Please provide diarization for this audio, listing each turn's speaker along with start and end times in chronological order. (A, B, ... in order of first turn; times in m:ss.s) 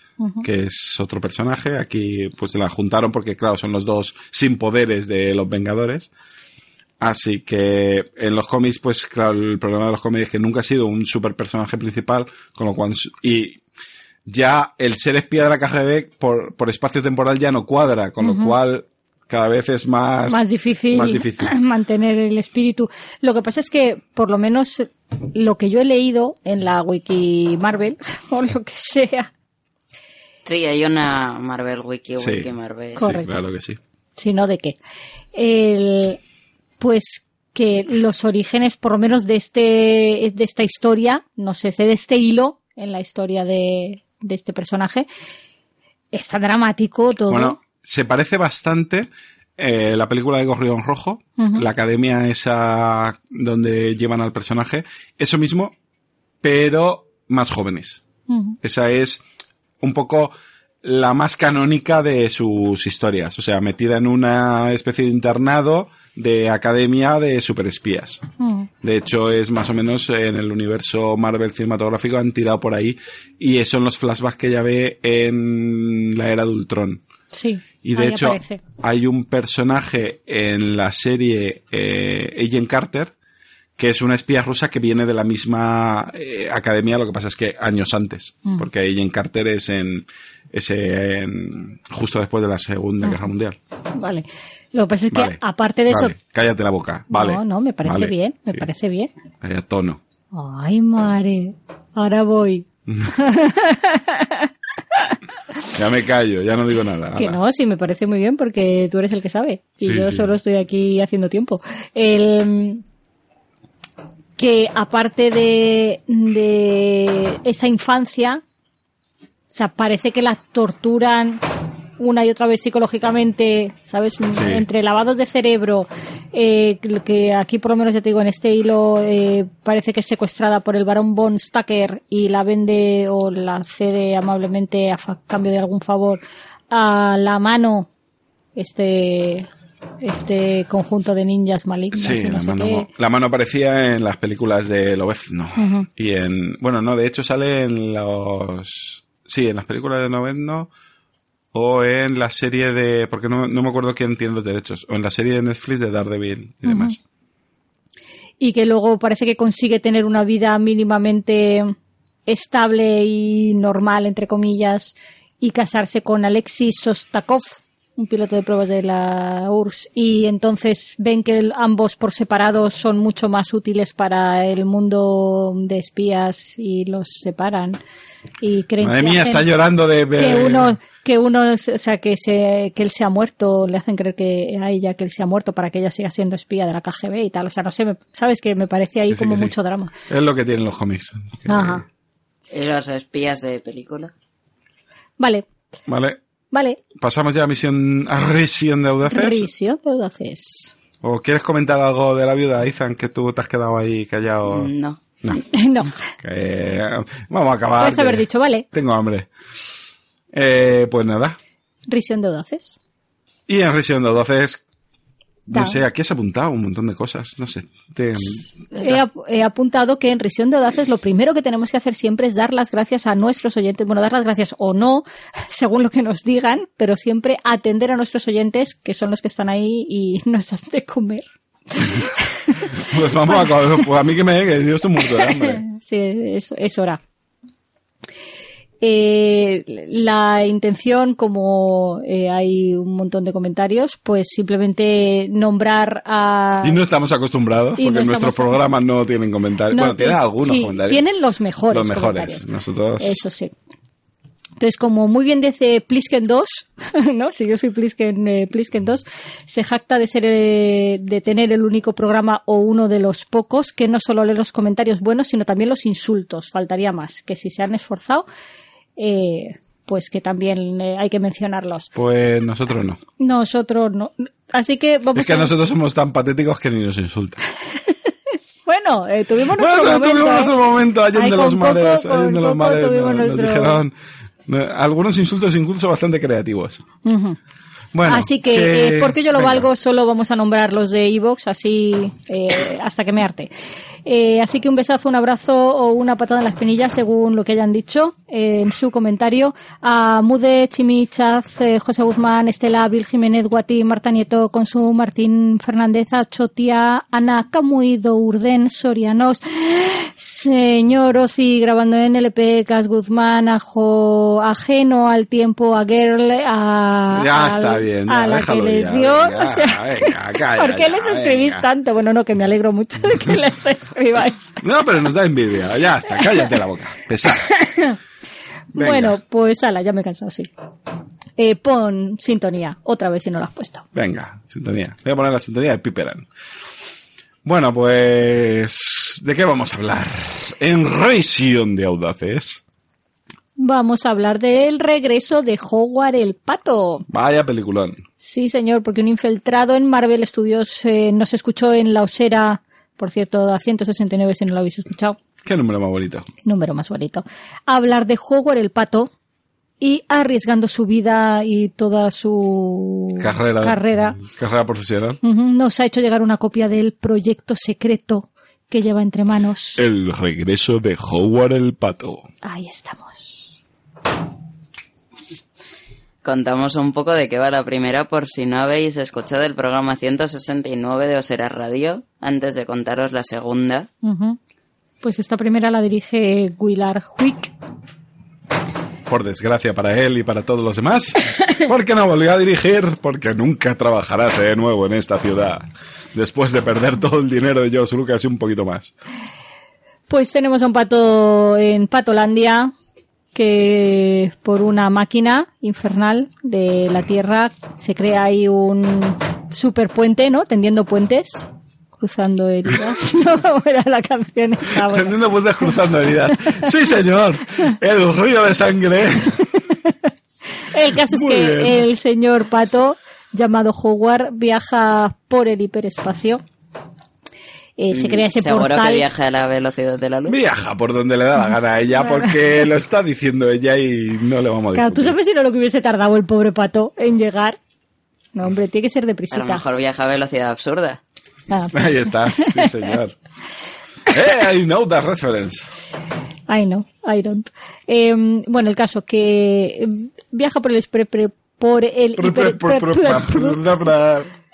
0:00.2-0:00.4 A
0:00.4-0:06.1 B
0:07.0-0:13.6 B
0:14.2-0:21.5 B
0:18.2-0:18.5 A
0:20.3-0:29.3 A
0:30.4-0:33.0 C
0:32.2-0:33.8 B
0:33.0-0:33.3 A
0:34.2-0:34.8 A
0:35.3-0:36.2 A
0:36.8-0:45.1 A
0:46.1-0:47.6 A
0:47.3-0:55.7 B
0:51.4-0:51.6 A
0:56.4-0:58.0 B
0:58.3-0:58.6 A
0:58.6-0:59.2 B
0:59.8-1:08.2 B
1:08.4-1:08.7 A
1:08.8-1:17.0 B
1:17.3-1:18.6 A
1:17.8-1:23.1 B
1:23.8-1:33.6 B
1:34.0-1:36.1 A
1:35.1-1:38.6 B
1:37.1-1:39.1 A
1:39.4-1:40.0 B
1:40.3-1:45.2 A
1:42.9-1:43.1 B
1:45.7-1:47.4 B
1:47.2-1:52.8 A
1:49.8-1:50.3 B
1:54.4-1:58.4 A
1:59.5-2:01.4 A
2:02.0-2:17.9 A
2:04.3-2:04.6 B
2:18.6-2:19.5 A
2:20.0-2:22.9 A
2:21.9-2:30.7 B
2:25.6-2:25.9 A
2:31.5-2:37.0 B
2:36.6-2:36.9 A
2:38.4-2:41.7 A
2:42.3-2:57.8 A
2:58.4-2:59.5 A
2:58.8-3:00.8 B
3:00.2-3:09.9 A
3:09.1-3:09.5 B
3:10.1-3:11.8 B
3:11.5-3:11.8 A
3:12.5-3:14.1 C
3:15.2-3:15.4 A
3:15.9-3:16.2 B
3:16.5-3:16.8 A
3:17.0-3:19.5 B
3:19.1-3:20.7 A
3:21.0-3:24.7 B
3:24.4-3:25.0 C
3:25.4-3:25.9 A
3:26.2-3:29.3 B
3:27.8-3:28.6 A
3:30.3-3:31.4 B
3:31.9-3:32.8 A
3:33.5-3:34.6 B
3:35.5-3:39.0 B
3:35.5-3:35.8 A
3:38.7-3:53.8 A
3:52.8-3:55.6 B
3:55.1-3:57.0 A
3:58.8-4:06.8 A
4:06.6-4:11.0 B
4:07.8-4:08.6 A
4:09.7-4:12.4 A
4:11.7-4:13.2 B
4:13.0-4:13.5 A
4:14.6-4:28.2 A
4:29.0-4:31.9 A
4:31.9-4:33.0 B
4:33.2-4:35.5 A
4:35.1-4:37.4 B
4:38.6-4:40.5 A
4:39.5-4:43.9 B
4:41.1-4:43.8 A
4:44.5-4:46.8 B
4:47.0-4:47.4 A
4:47.9-4:49.7 B
4:48.0-4:53.5 A
4:54.0-5:24.6 A
5:17.1-5:21.6 B
5:24.6-5:27.5 B
5:27.5-5:28.0 A
5:28.7-5:29.2 B
5:28.7-5:30.5 A
5:31.4-5:33.8 A
5:33.9-5:36.2 B
5:37.4-5:42.6 B
5:43.6-5:47.0 A
5:47.1-5:48.0 B
5:48.2-5:55.2 A
5:55.4-5:56.3 B
5:56.4-5:59.1 A
5:59.8-6:04.2 A
6:03.2-6:05.2 B
6:05.2-6:09.8 A
6:09.8-6:12.3 B
6:12.4-6:13.5 A
6:16.2-6:23.9 C
6:24.0-6:24.4 A
6:25.0-6:27.5 A
6:29.1-6:38.9 B
6:40.1-6:42.7 A
6:43.3-6:51.4 A
6:52.0-6:55.1 A
6:54.7-6:59.4 B
7:00.7-7:06.4 A
7:01.0-7:01.8 B
7:07.8-7:09.0 A
7:07.9-7:10.4 C
7:10.3-7:15.1 B
7:12.0-7:12.3 A
7:14.7-7:17.6 A
7:18.3-7:19.6 A
7:19.3-7:21.0 C
7:21.5-7:22.8 A
7:21.7-7:23.1 B
7:24.1-7:25.7 B
7:26.5-7:33.6 A
7:32.2-7:34.3 B